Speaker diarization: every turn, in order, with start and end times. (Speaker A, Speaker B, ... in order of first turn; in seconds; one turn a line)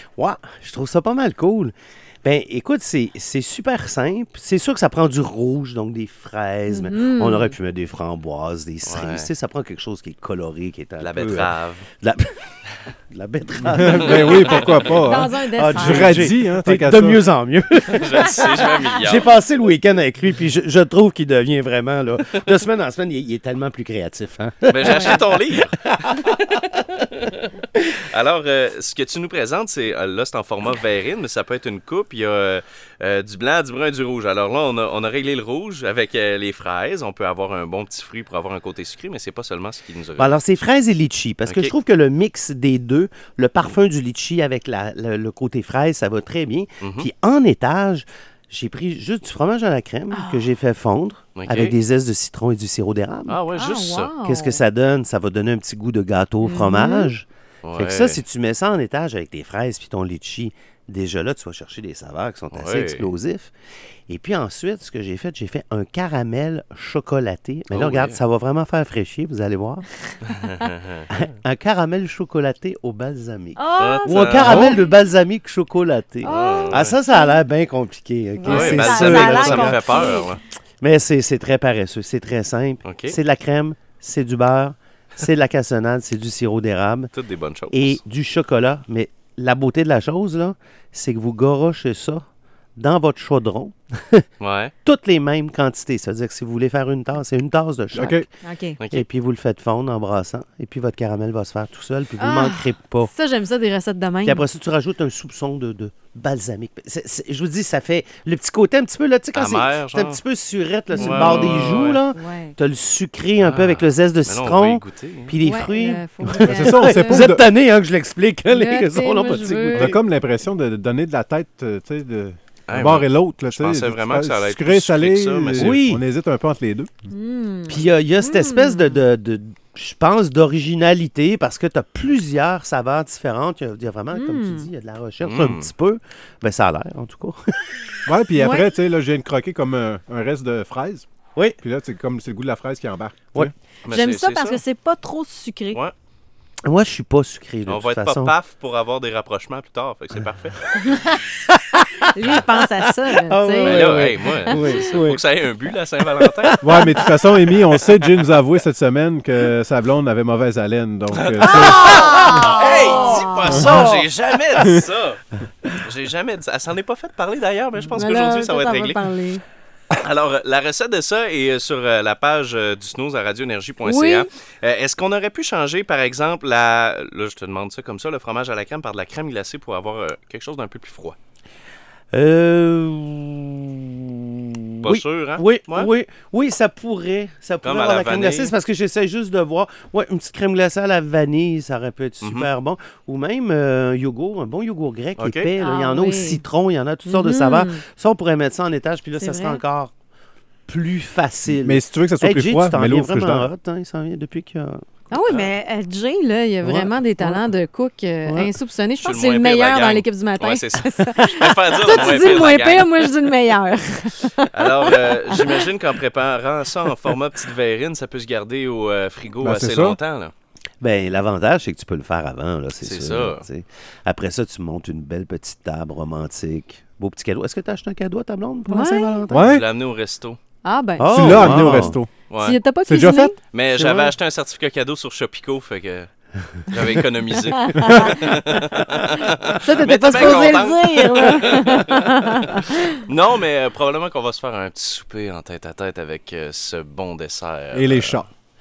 Speaker A: 0.2-12.3
Speaker B: 6.7-7.5
Speaker C: 8.8-9.3
Speaker C: 11.0-11.9
Speaker A: 13.1-26.4
Speaker D: 13.6-17.2
Speaker C: 13.9-14.3
Speaker B: 14.1-16.3
Speaker C: 17.8-19.3
Speaker C: 24.7-26.4
Speaker B: 24.8-25.1
Speaker C: 28.0-40.4
Speaker A: 40.2-53.4
Speaker C: 41.5-41.7
Speaker C: 46.8-47.1
Speaker B: 50.1-50.5
Speaker C: 51.4-51.8
Speaker C: 53.3-54.1
Speaker B: 53.5-54.6
Speaker A: 54.2-63.5
Speaker B: 56.4-57.1
Speaker C: 57.6-58.2
Speaker C: 62.5-63.1
Speaker A: 64.1-69.9
Speaker C: 67.7-68.2
Speaker C: 70.3-71.1
Speaker A: 71.1-80.2
Speaker B: 73.6-75.0
Speaker C: 73.8-74.7
Speaker D: 74.5-74.8
Speaker C: 76.2-77.0
Speaker B: 76.2-77.4
Speaker B: 78.4-80.4
Speaker C: 78.4-80.4
Speaker A: 80.8-87.1
Speaker C: 82.8-83.2
Speaker C: 87.1-88.0
Speaker A: 87.7-92.2
Speaker A: 92.8-94.2
Speaker C: 94.4-94.7
Speaker A: 94.8-98.3
Speaker D: 97.9-98.2
Speaker B: 98.4-98.8
Speaker C: 98.8-99.0
Speaker A: 98.9-103.1
Speaker B: 102.2-104.5
Speaker A: 104.2-120.0
Speaker C: 109.3-110.2
Speaker B: 110.9-112.5
Speaker C: 111.0-112.0
Speaker C: 113.4-115.4
Speaker B: 115.4-117.3
Speaker D: 116.3-117.4
Speaker B: 118.5-120.0
Speaker D: 119.7-126.9
Speaker C: 122.7-125.8
Speaker A: 125.6-126.0
Speaker B: 127.1-129.0
Speaker A: 127.7-137.4
Speaker B: 134.1-134.7
Speaker C: 135.2-135.7
Speaker D: 138.1-141.1
Speaker B: 138.4-138.7
Speaker D: 141.6-143.5
Speaker C: 143.8-144.6
Speaker B: 143.9-145.8
Speaker A: 146.7-148.3
Speaker C: 147.7-150.8
Speaker B: 150.8-151.2
Speaker A: 151.5-152.6
Speaker B: 152.1-154.8
Speaker A: 153.2-155.2
Speaker C: 153.6-156.6
Speaker A: 156.2-157.1
Speaker D: 156.6-162.0
Speaker C: 161.1-165.2
Speaker B: 161.6-163.6
Speaker A: 161.7-164.8
Speaker C: 165.8-169.0
Speaker B: 167.9-169.4
Speaker C: 169.9-181.2
Speaker B: 173.8-174.3
Speaker A: 182.1-183.6
Speaker C: 184.8-185.9
Speaker A: 184.8-199.9
Speaker C: 187.6-188.5
Speaker C: 192.2-192.5
Speaker C: 195.2-195.5
Speaker B: 195.6-196.4
Speaker B: 197.1-197.8
Speaker B: 199.2-199.6
Speaker A: 200.7-204.8
Speaker D: 201.6-203.5
Speaker B: 205.1-215.7
Speaker C: 205.2-205.5
Speaker A: 206.6-207.5
Speaker A: 208.3-208.5
Speaker C: 209.0-213.1
Speaker C: 214.5-220.3
Speaker D: 219.4-220.0
Speaker A: 220.8-229.4
Speaker C: 222.8-223.4
Speaker B: 228.7-229.2
Speaker D: 229.3-229.7
Speaker C: 229.3-230.4
Speaker B: 230.6-233.4
Speaker A: 231.0-232.0
Speaker D: 231.1-232.1
Speaker C: 232.3-232.6
Speaker D: 232.9-233.3
Speaker C: 233.5-236.1
Speaker A: 233.7-234.1
Speaker C: 236.6-248.2
Speaker D: 237.8-238.2
Speaker B: 239.6-242.7
Speaker A: 239.8-240.7
Speaker D: 247.7-248.3